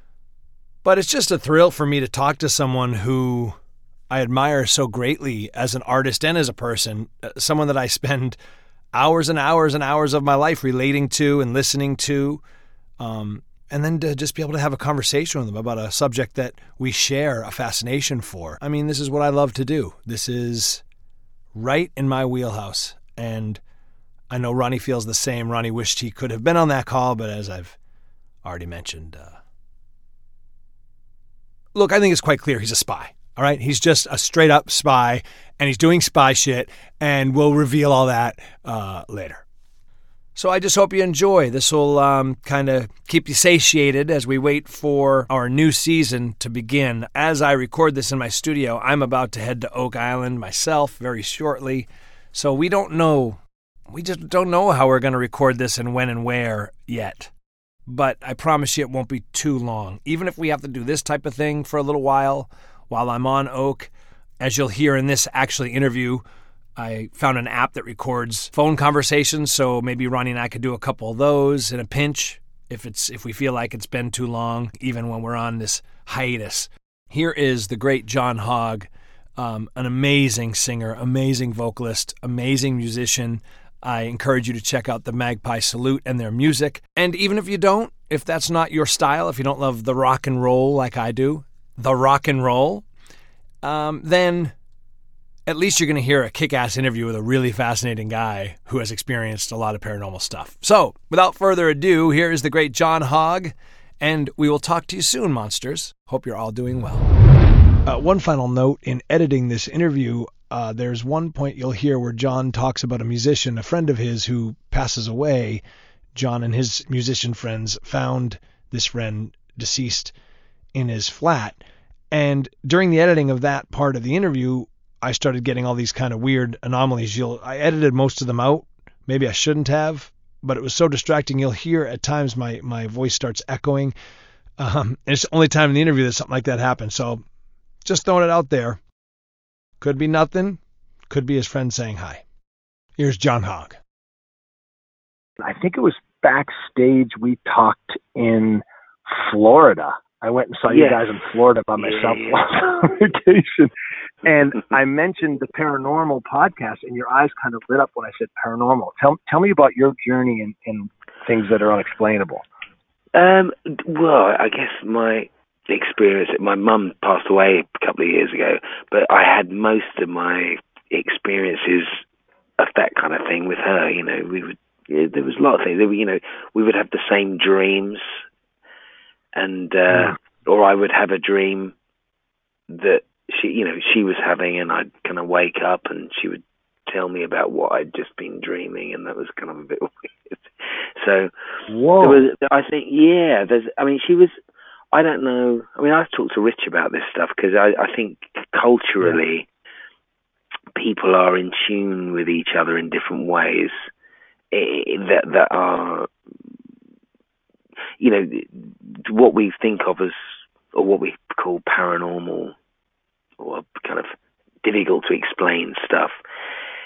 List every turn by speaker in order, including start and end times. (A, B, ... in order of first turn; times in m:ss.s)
0:00.8-0:03.6 A
0:04.1-0:08.4 A
0:08.9-0:12.4 A
0:13.0-0:20.8 A
0:21.6-0:23.6 A
0:24.3-0:27.8 A
0:28.4-0:29.4 A
0:31.8-0:39.4 A
0:40.4-0:57.3 A
0:57.9-1:06.2 A
1:06.8-1:32.9 A
1:33.6-1:34.5 A
1:35.5-1:47.1 A
1:47.9-1:55.6 A
1:56.2-2:00.1 A
2:00.8-2:01.6 A
2:02.1-2:13.9 A
2:14.6-2:17.2 A
2:17.8-2:18.8 A
2:19.8-2:22.2 A
2:23.0-2:23.8 A
2:25.4-2:33.7 B
2:30.7-2:31.1 C
2:31.8-2:32.5 C
2:34.2-2:42.4 B
2:43.2-2:52.0 C
2:52.6-2:58.2 C
2:59.4-3:01.7 C
2:59.9-3:00.2 B
3:02.7-3:11.3 C
3:11.7-3:12.2 B
3:12.0-3:14.4 C
3:14.9-3:19.5 C
3:20.8-3:23.9 C
3:24.5-3:26.1 C
3:28.0-3:32.5 C
3:33.4-3:36.2 C